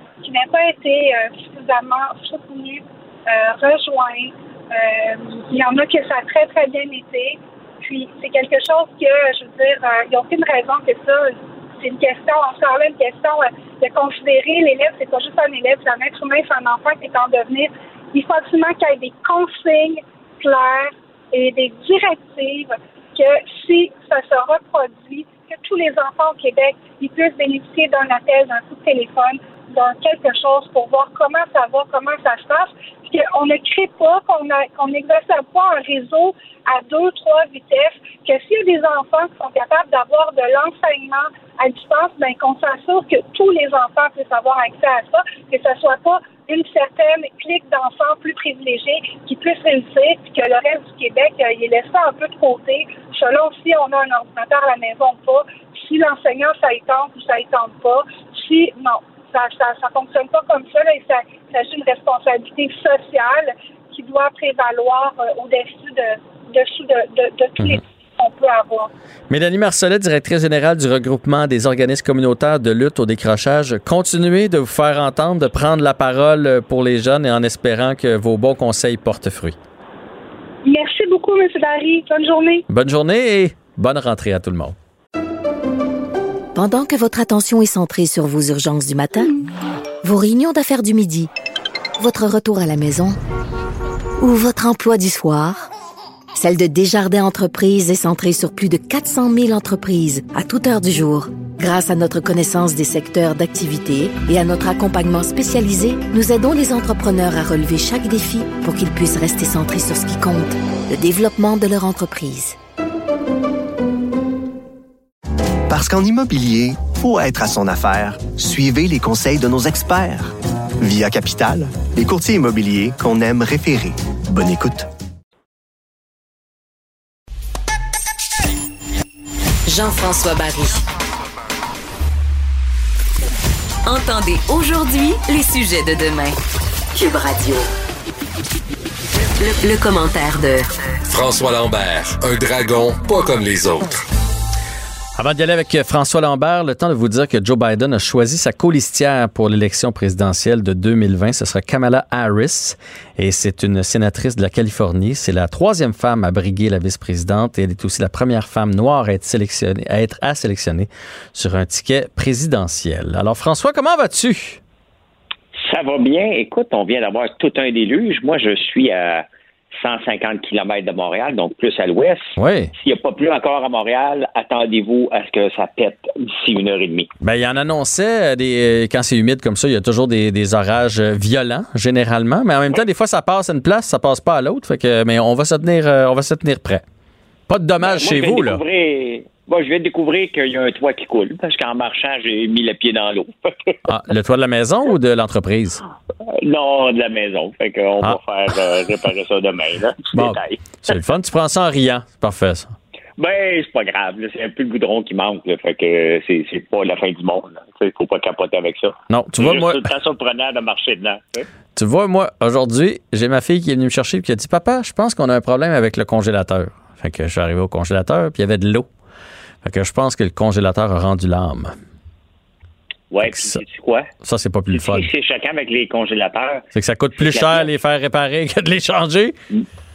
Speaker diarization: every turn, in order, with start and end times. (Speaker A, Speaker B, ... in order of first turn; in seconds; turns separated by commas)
Speaker A: 0.2-68.9, Speaker B: 69.3-79.5, Speaker A: 80.6-82.7, Speaker B: 82.7-84.7, Speaker C: 86.5-89.3, Speaker C: 90.0-91.3, Speaker C: 92.0-93.2, Speaker C: 94.2-95.6, Speaker C: 96.3-112.6, Speaker D: 115.7-124.9, Speaker E: 129.7-130.8, Speaker E: 133.8-136.4, Speaker E: 136.9-137.7, Speaker E: 139.4-140.7, Speaker F: 141.1-144.0, Speaker B: 145.2-164.6, Speaker G: 165.5-177.1, Speaker B: 172.4-172.7, Speaker B: 177.2-186.8, Speaker B: 187.5-188.6, Speaker G: 187.8-193.8, Speaker B: 193.8-195.8, Speaker G: 196.4-200.9, Speaker B: 200.1-202.7, Speaker G: 203.2-211.5, Speaker B: 209.1-209.9, Speaker B: 211.7-218.9, Speaker B: 219.6-221.7, Speaker G: 223.1-224.1, Speaker B: 223.2-223.6, Speaker B: 224.2-225.1, Speaker G: 224.7-227.7, Speaker B: 226.7-229.3